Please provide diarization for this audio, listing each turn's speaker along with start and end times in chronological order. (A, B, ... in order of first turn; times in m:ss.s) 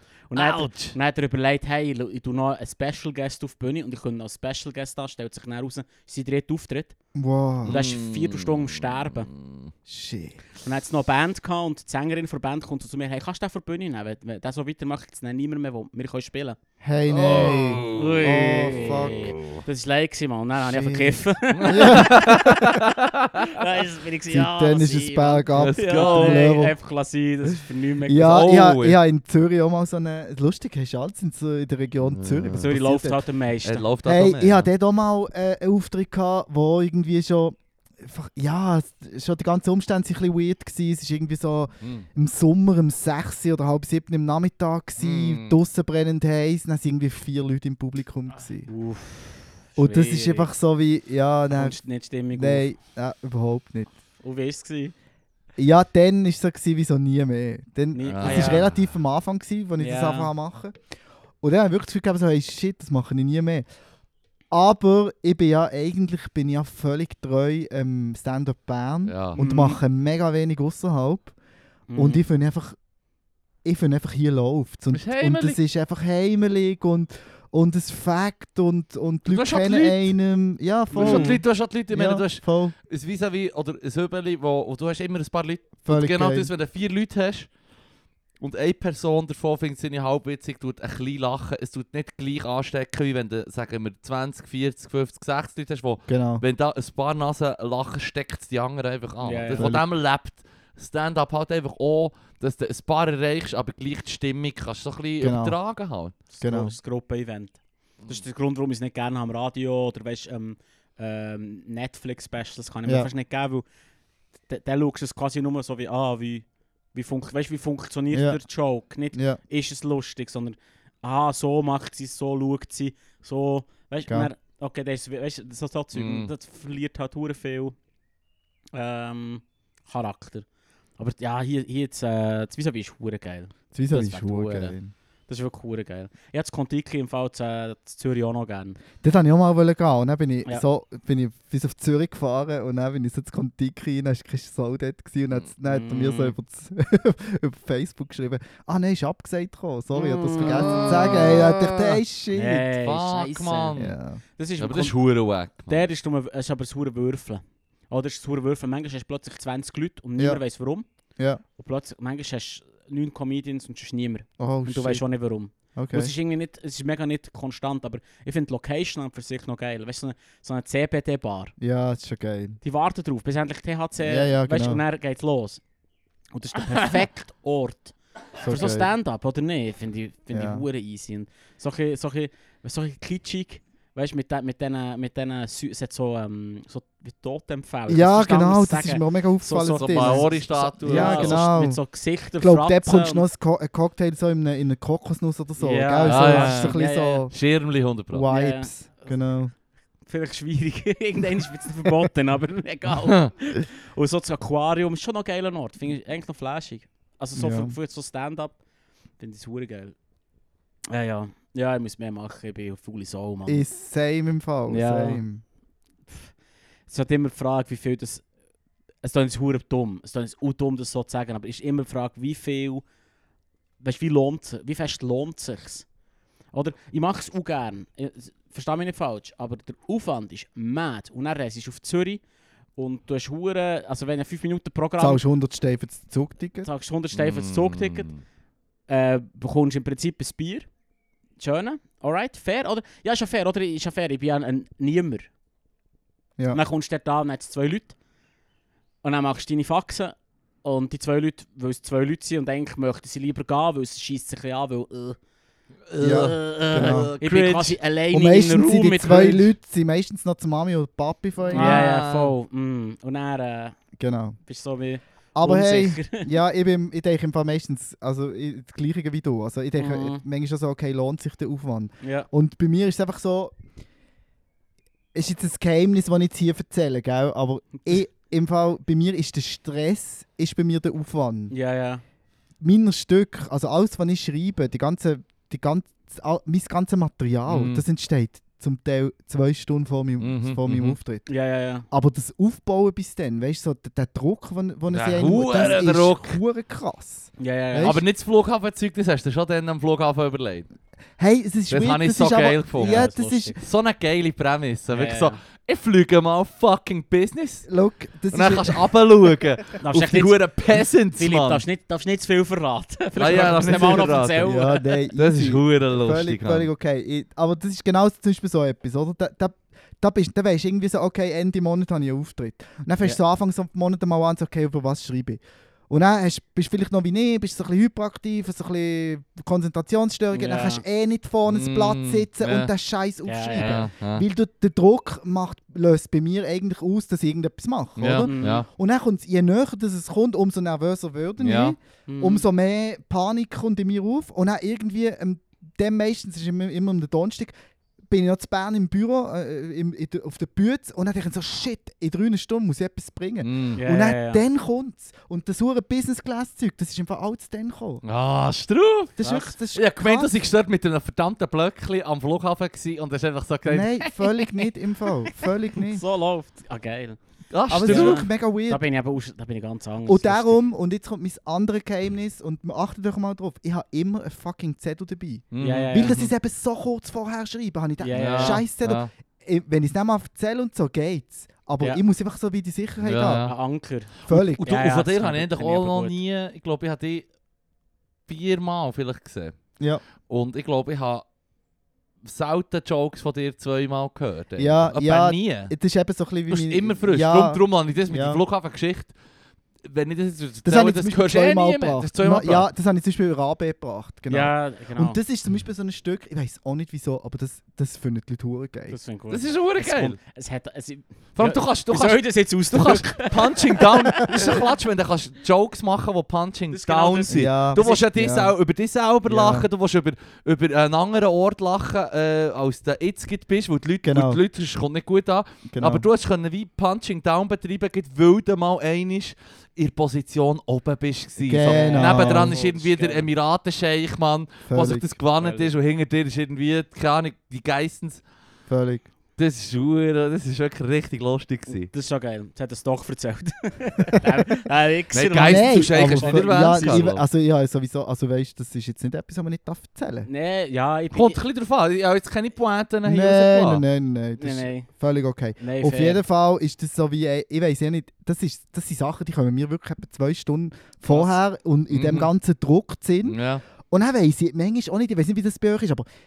0:00.3-0:06.9 A
0:00.3-0:01.0 B
0:07.1-0:07.8 C
0:07.6-0:09.7 B
0:07.6-0:09.3 A
0:09.8-0:10.4 C
0:10.6-0:16.6 A
0:16.8-0:19.3 C
0:17.1-0:19.6 B
0:17.9-0:22.7 A
0:20.6-0:22.8 C
0:21.6-0:23.6 B
0:23.4-0:28.5 A
0:24.3-0:26.7 C
0:25.5-0:26.5 B
0:28.1-0:33.2 C
0:28.2-0:29.0 B
0:32.1-0:32.7 B
0:32.6-0:33.8 A
0:33.6-0:34.7 B
0:34.0-0:48.7 C
0:45.0-0:45.6 B
0:48.7-0:50.5 A
0:49.8-0:51.8 C
0:51.5-0:52.7 A
0:52.3-0:53.9 C
0:54.2-0:54.9 A
0:55.6-1:00.7 C
0:57.9-0:58.7 A
0:58.1-0:58.8 B
0:59.8-1:00.3 A
1:01.4-1:03.6 C
1:04.5-1:11.3 C
1:09.0-1:09.4 B
1:09.4-1:09.8 A
1:11.9-1:12.2 A
1:12.0-1:12.8 C
1:13.6-1:22.7 C
1:14.9-1:15.6 B
1:19.3-1:20.1 B
1:20.9-1:21.4 A
1:21.0-1:27.5 B
1:25.8-1:26.5 C
1:28.4-1:46.2 B
1:36.1-1:36.4 C
1:39.2-1:39.7 A
1:39.6-1:39.8 C
1:45.2-1:45.6 C
1:46.3-1:53.6 A
1:46.4-1:46.7 C
1:54.5-2:07.8 A
1:58.1-1:58.4 C
1:59.1-1:59.4 C
2:05.9-2:06.3 B
2:08.7-2:10.4 A
2:11.0-2:14.8 A
2:13.7-2:14.9 C
2:15.3-2:18.8 A
2:19.0-2:32.7 C
2:25.6-2:26.3 A
2:29.9-2:31.3 A
2:30.4-2:32.0 B
2:32.3-2:33.8 A
2:32.7-2:34.0 B
2:33.8-2:34.2 C
2:34.4-2:35.0 A
2:34.6-2:35.9 B
2:35.7-2:40.8 A
2:41.2-2:41.4 C
2:41.6-2:51.5 A
2:44.4-2:45.0 C
2:45.8-2:46.1 C
2:51.6-2:52.6 C
2:52.6-2:55.6 A
2:54.0-2:54.8 C
2:56.3-3:13.2 A
2:58.4-2:58.9 C
3:00.3-3:00.6 C
3:07.9-3:11.8 C
3:09.8-3:11.4 B
3:12.4-3:17.3 C
3:15.6-3:17.3 A
3:16.0-3:16.8 B
3:17.3-3:18.3 B
3:18.1-3:19.5 C
3:18.3-3:19.2 A
3:20.0-3:28.6 A
3:23.0-3:23.3 B
3:27.3-3:27.8 C
3:29.2-3:30.0 A
3:30.9-3:33.6 A
3:33.4-3:35.4 C
3:34.7-3:35.2 A
3:36.9-3:38.2 A
3:39.0-3:42.8 A
3:43.8-3:45.8 A
3:46.5-3:52.2 A
3:52.8-3:55.2 A
3:55.0-3:56.7 C
3:56.6-3:58.1 A
3:57.1-3:58.2 B
3:58.9-4:00.7 A
4:01.4-4:05.3 A
4:06.5-4:07.9 A
4:09.0-4:15.2 A
4:15.9-4:17.8 B
4:16.0-4:17.1 C
4:16.8-4:19.5 A
4:18.1-4:21.9 C
4:21.5-4:22.3 B
4:21.5-4:23.8 A
4:24.0-4:24.4 C
4:24.4-4:26.3 A
4:25.3-4:33.5 C
4:29.8-4:30.2 A
4:32.0-4:32.3 A
4:35.1-4:41.5 C
4:41.5-4:42.0 A
4:42.6-4:51.3 C
4:47.5-4:47.8 B
4:50.2-4:51.0 B
4:51.3-4:51.9 A
4:51.9-4:58.0 C
4:54.9-4:56.4 B
4:57.4-4:58.0 A
4:57.8-5:00.7 B
5:01.2-5:03.6 C
5:01.7-5:07.7 B
5:02.8-5:03.6 A
5:04.9-5:05.4 A
5:07.7-5:09.4 C
5:08.3-5:11.6 B
5:09.8-5:10.4 A
5:11.1-5:14.8 A
5:13.2-5:14.5 B
5:14.4-5:47.5 C
5:15.2-5:16.7 B
5:30.3-5:30.8 A
5:31.5-5:32.7 B
5:33.2-5:33.8 A
5:33.5-5:34.2 B
5:38.0-5:38.7 B
5:38.2-5:38.6 A
5:41.4-5:41.8 B
5:42.1-5:42.4 A
5:48.1-5:58.0 C
5:53.4-5:53.8 B
5:53.8-5:54.4 A
5:58.0-6:04.4 B
5:59.2-6:00.3 C
6:03.7-6:06.0 C
6:05.9-6:07.2 A
6:07.5-6:08.2 B
6:07.7-6:08.8 C
6:07.8-6:10.6 A
6:10.1-6:23.5 C
6:15.5-6:16.3 B
6:15.6-6:16.2 A
6:18.0-6:18.6 A
6:18.1-6:19.1 B
6:23.0-6:23.5 B
6:23.4-6:26.2 A
6:24.3-6:24.7 C
6:24.3-6:27.2 B
6:28.3-6:29.6 B
6:30.2-6:31.2 B
6:32.2-6:35.7 B
6:34.6-6:38.4 C
6:36.5-6:39.1 B
6:39.8-6:42.7 B
6:40.6-6:49.0 C
6:44.3-6:45.2 A
6:48.9-6:54.6 A
6:49.3-6:50.2 B
6:51.4-7:18.2 B
6:56.7-6:58.0 A
6:57.3-6:58.5 C
6:59.2-6:59.7 C
7:04.0-7:04.4 C
7:05.7-7:06.0 C
7:11.4-7:12.6 C
7:11.6-7:13.3 A
7:14.7-7:15.1 C
7:15.4-7:15.7 A
7:18.7-7:19.0 C
7:19.4-7:21.9 B
7:21.7-7:27.1 A
7:25.1-7:27.2 B
7:25.4-7:30.3 C
7:30.2-7:31.4 A
7:31.1-7:33.8 B
7:33.0-7:43.4 C
7:34.4-7:34.9 A
7:35.6-7:36.2 A
7:41.9-7:42.3 B
7:43.2-7:43.6 B
7:43.9-7:46.0 C